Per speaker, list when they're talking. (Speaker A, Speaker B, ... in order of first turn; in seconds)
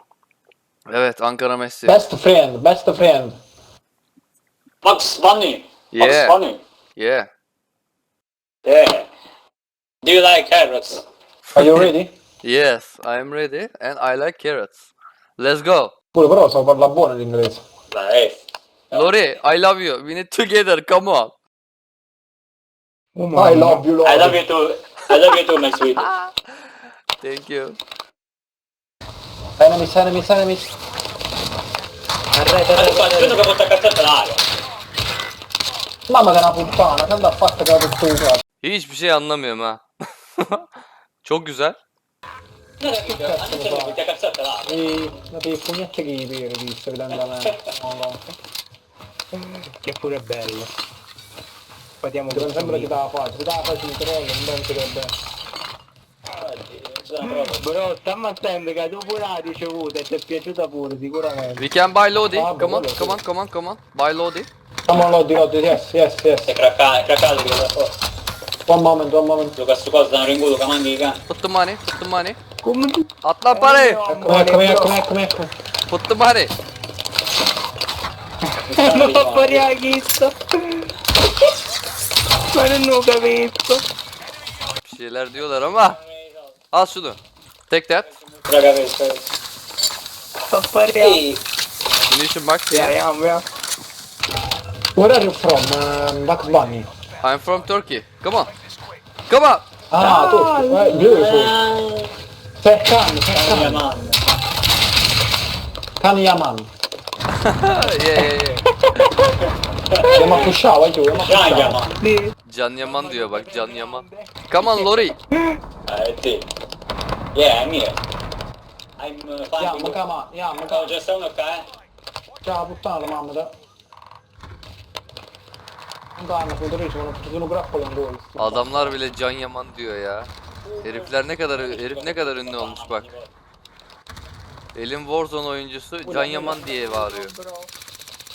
Speaker A: 0.9-2.0, 5.9-6.4, 7.0-7.3, 11.5-11.9, 12.4-15.9, 18.9-21.4, 26.0-27.8, 38.6-39.9, 40.4-40.7, 41.2-41.8, 61.6-64.5, 71.3-72.4, 73.2-74.0, 75.9-76.5, 84.8-86.0, 86.7-87.2, 87.7-88.2, 92.1-93.0, 97.2-98.5, 99.3-99.7, 107.5-108.6, 112.5-115.2, 128.4-130.3, 130.8-133.1, 134.8-137.3
Speaker B: 1.9-3.4, 11.6-12.1, 16.1-17.6, 23.3-24.4, 29.6-30.7, 36.1-38.4, 43.1-44.0, 44.7-48.2, 52.3-55.1, 62.3-63.2, 64.9-66.5, 68.7-69.6, 74.1-75.5, 95.0-96.9, 99.9-101.5, 102.6-103.8, 106.0-106.7, 110.1-111.8, 119.6-121.0, 122.4-123.5, 126.2-129.0, 136.0-137.7
Speaker C: 4.8-6.6, 8.7-9.1, 10.0-11.1, 17.9-18.4, 18.9-19.2, 24.0-26.1, 32.7-34.4, 42.8-44.9, 47.1-47.7, 56.3-57.7, 66.5-68.0, 69.6-71.2, 78.7-79.7, 85.7-86.6, 88.3-89.2, 90.9-91.4, 101.1-102.1, 103.3-104.2, 109.9-110.5, 111.1-112.0, 115.9-116.5, 117.3-118.0, 119.0-120.0, 120.7-121.7, 130.6-133.3
Speaker D: 23.1-23.8, 32.3-33.4, 49.3-50.7, 52.0-53.0, 57.3-61.7, 72.6-75.0, 78.5-81.5, 82.5-83.9, 90.5-91.2, 92.7-93.5, 100.0-101.1, 108.9-109.3, 112.0-115.6